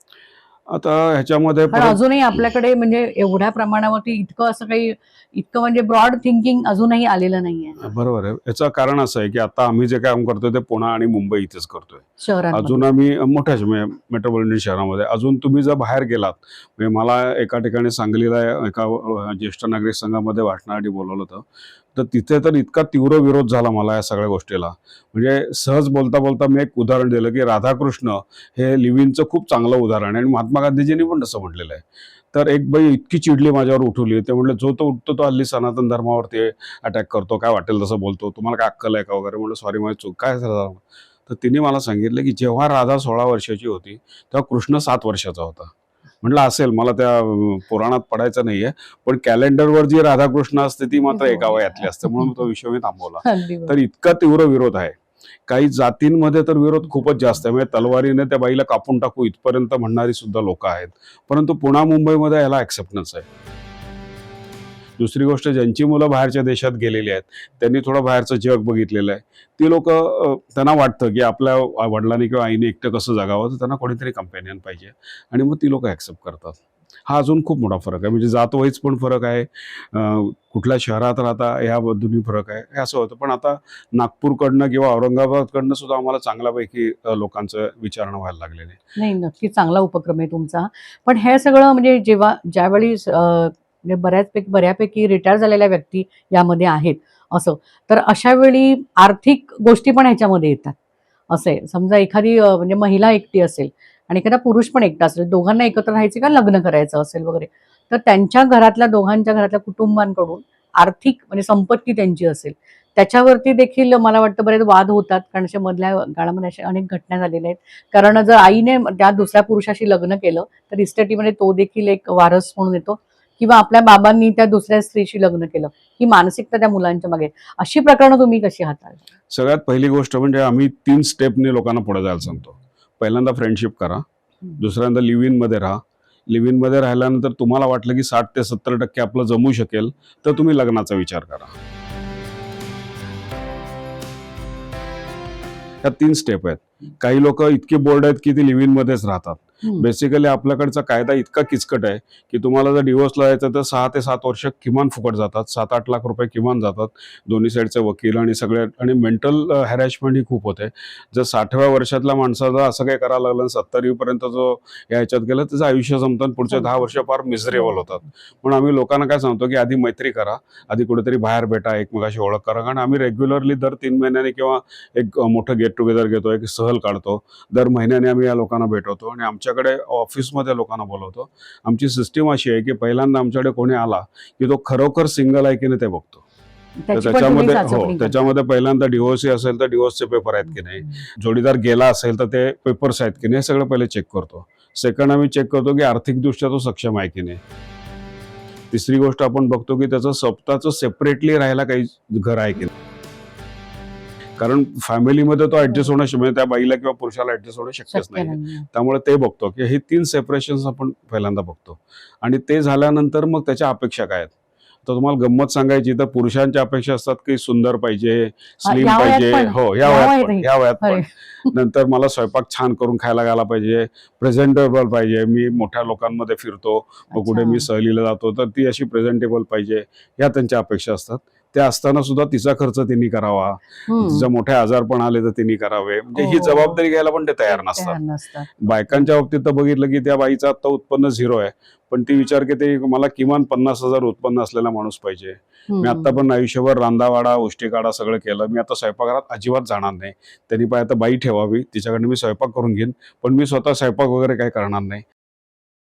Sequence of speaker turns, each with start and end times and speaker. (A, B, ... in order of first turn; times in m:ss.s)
0:00.7-0:02.0 A
0:01.7-0:07.9 B
0:07.8-1:03.3 A
0:12.2-0:12.8 B
0:51.1-0:51.8 B
0:53.2-0:53.8 B
1:05.0-1:28.8 A
1:29.0-1:40.7 B
1:41.3-2:09.0 B
2:09.3-2:14.0 A
2:14.6-2:21.5 A
2:25.8-3:06.2 A
3:06.8-3:08.3 B
3:06.9-3:17.4 A
3:18.7-3:22.7 A
3:24.4-3:34.3 A
3:27.9-3:28.6 B
3:34.8-3:58.0 A
3:38.6-3:41.5 B
3:47.1-3:47.6 B
3:53.9-3:54.3 B
3:56.1-3:56.8 B
3:57.5-3:59.1 B
3:58.6-4:15.0 A
4:05.7-4:06.2 B